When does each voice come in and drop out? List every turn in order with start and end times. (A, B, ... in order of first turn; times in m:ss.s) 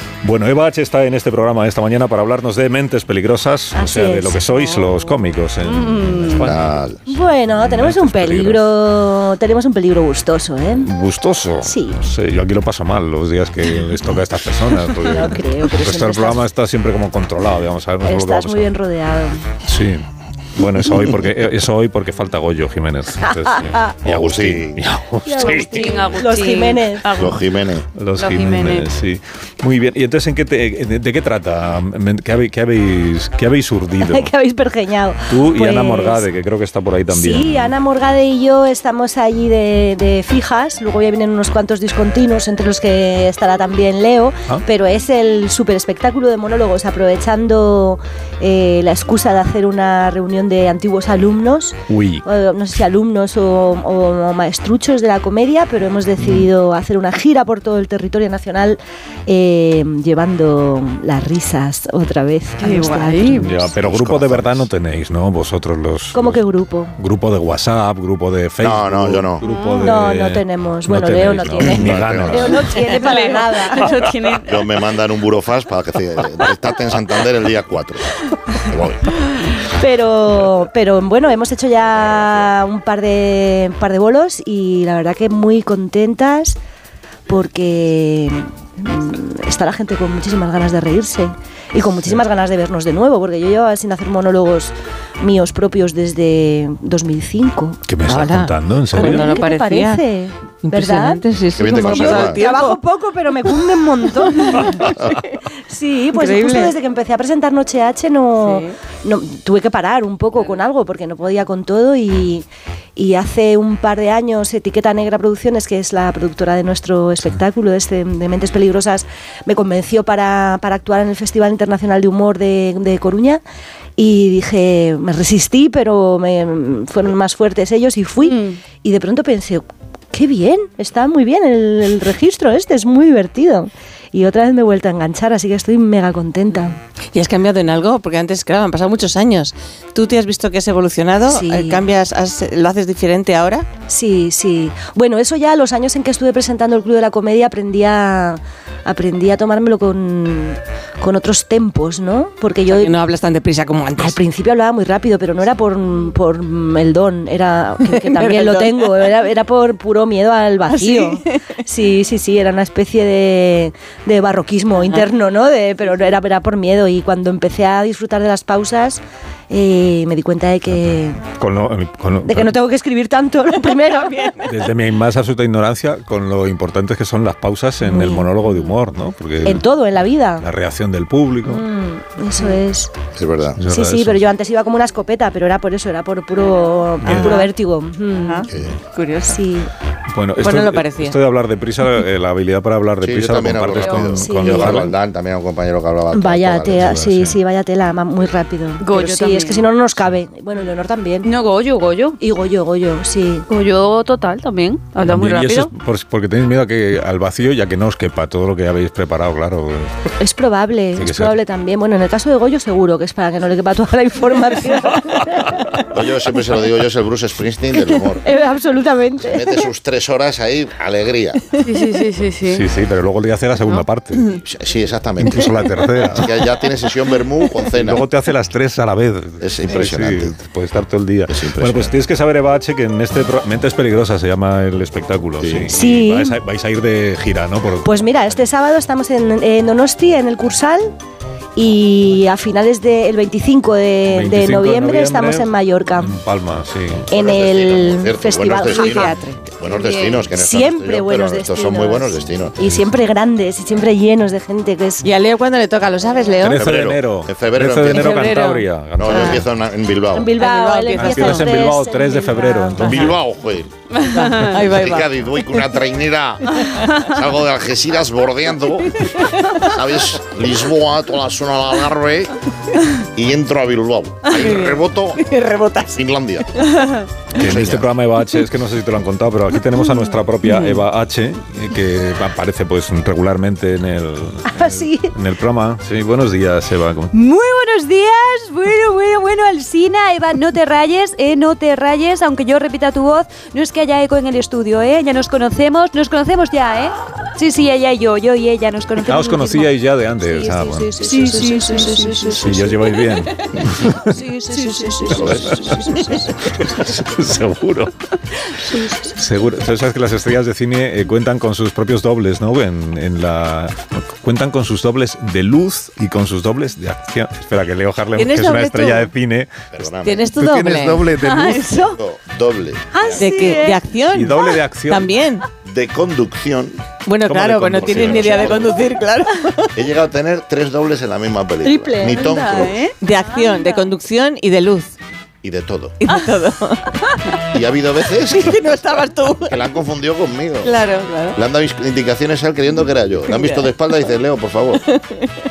0:00.2-0:06.7 A
0:03.7-0:04.5 B
0:05.6-0:06.4 C
0:06.4-0:07.0 D
0:07.1-0:10.9 B
0:07.6-0:08.7 A
0:10.8-0:18.7 A
0:11.6-0:12.0 B
0:15.0-0:16.4 B
0:18.0-0:19.4 B
0:19.6-0:26.0 A
0:23.2-0:23.9 B
0:24.0-0:24.8 D
0:25.2-0:27.0 B
0:25.4-0:27.4 C
0:27.1-0:27.9 D
0:27.9-0:34.3 A
0:28.2-0:28.9 C
0:34.0-0:36.2 B
0:35.3-0:37.7 A
0:37.1-1:03.5 B
0:51.9-0:52.2 A
0:56.2-0:56.5 A
1:02.6-1:03.6 C
1:03.3-1:06.4 A
1:03.8-1:04.6 D
1:06.1-1:06.9 B
1:07.0-1:12.8 A
1:08.6-1:09.4 D
1:09.4-1:10.0 C
1:09.8-1:13.9 B
1:11.6-1:12.6 D
1:12.7-1:14.7 C
1:14.4-1:19.0 D
1:19.8-1:26.6 B
1:27.3-1:37.8 B
1:37.9-1:39.4 A
1:38.1-1:40.0 E
1:39.0-1:41.2 B
1:40.6-1:42.8 E
1:41.5-1:42.4 D
1:41.7-1:44.9 B
1:45.7-1:52.4 B
1:46.1-1:46.7 E
1:48.4-1:48.7 E
1:53.0-2:03.4 B
2:04.0-2:16.8 B
2:08.2-2:08.6 C
2:17.1-2:23.7 E
2:21.3-2:21.8 B
2:23.9-2:32.9 B
2:32.7-2:34.2 E
2:34.0-2:51.2 B
2:37.8-2:39.0 E
2:40.7-2:41.4 E
2:50.8-2:52.5 A
2:52.2-2:54.3 B
2:53.9-2:54.4 E
2:54.4-2:59.7 A
2:57.9-2:58.3 B
2:59.4-3:00.4 B
3:00.4-3:01.6 A
3:01.4-3:02.9 B
3:03.2-3:03.6 D
3:03.6-3:04.2 A
3:03.6-3:08.4 B
3:07.0-3:07.4 A
3:07.0-3:07.3 E
3:08.2-3:09.4 E
3:08.5-3:08.8 D
3:09.3-3:09.7 B
3:10.1-3:14.9 A
3:10.4-3:11.2 E
3:13.0-3:16.9 D
3:14.2-3:14.9 B
3:16.1-3:21.3 B
3:16.8-3:17.4 A
3:18.8-3:19.7 C
3:21.2-3:22.2 C
3:22.2-3:23.4 B
3:23.5-3:25.7 C
3:25.0-3:29.9 A
3:30.2-3:35.5 B
3:31.0-3:31.4 A
3:35.9-3:38.2 D
3:38.2-3:39.5 B
3:39.2-3:41.6 D
3:41.6-3:42.6 C
3:42.4-3:44.4 A
3:44.4-3:48.0 D
3:45.2-3:46.4 A
3:47.7-3:58.0 A
3:49.4-3:50.3 D
3:51.3-3:51.9 D
3:55.4-3:55.7 D
3:55.7-3:56.4 B
3:57.8-4:00.9 B
4:01.6-4:06.2 B
4:04.1-4:07.1 A
4:07.1-4:09.2 B
4:07.1-4:12.6 D
4:08.6-4:09.4 E
4:09.7-4:10.2 C
4:10.3-4:15.1 B
4:15.0-4:16.6 E
4:16.4-4:19.4 A
4:16.5-4:18.3 D
4:17.9-4:19.5 E
4:19.0-4:20.3 D
4:20.1-4:22.9 B
4:20.4-4:21.5 E
4:20.9-4:23.2 A
4:22.8-4:23.7 D
4:24.0-4:24.6 C
4:24.1-4:25.6 E
4:24.6-4:32.3 D
4:29.1-4:29.5 E
4:33.1-4:35.3 D
4:34.3-4:36.0 E
4:35.9-4:36.8 D
4:37.3-4:37.9 D
4:37.3-4:47.1 A
4:44.4-4:45.1 B
4:47.1-5:02.8 F
4:59.0-5:01.0 A
5:01.0-5:02.3 B
5:02.3-5:04.2 A
5:04.1-5:06.1 F
5:04.5-5:05.8 B
5:05.1-5:05.6 D
5:05.1-5:07.9 A
5:09.1-5:19.6 A
5:18.2-5:19.1 E
5:19.7-5:20.3 D
5:20.0-5:21.1 E
5:20.3-5:21.6 A
5:21.3-5:23.2 D
5:23.0-5:23.7 F
5:23.2-5:25.4 E
5:24.1-5:25.1 A
5:25.6-5:26.8 D
5:27.0-5:29.7 E
5:27.2-5:28.6 A
5:27.8-5:28.8 D
5:29.7-5:32.8 D
5:31.6-5:32.5 B
5:32.1-5:32.7 C
5:32.5-5:32.9 F
5:33.0-5:34.9 E
5:35.4-5:36.0 D
5:36.0-5:36.9 E
5:37.5-5:38.6 D
5:38.3-5:39.6 E
5:39.4-5:40.8 D
5:40.6-5:41.4 E
5:41.3-5:44.9 D
5:43.3-5:43.7 E
5:45.0-5:45.2 E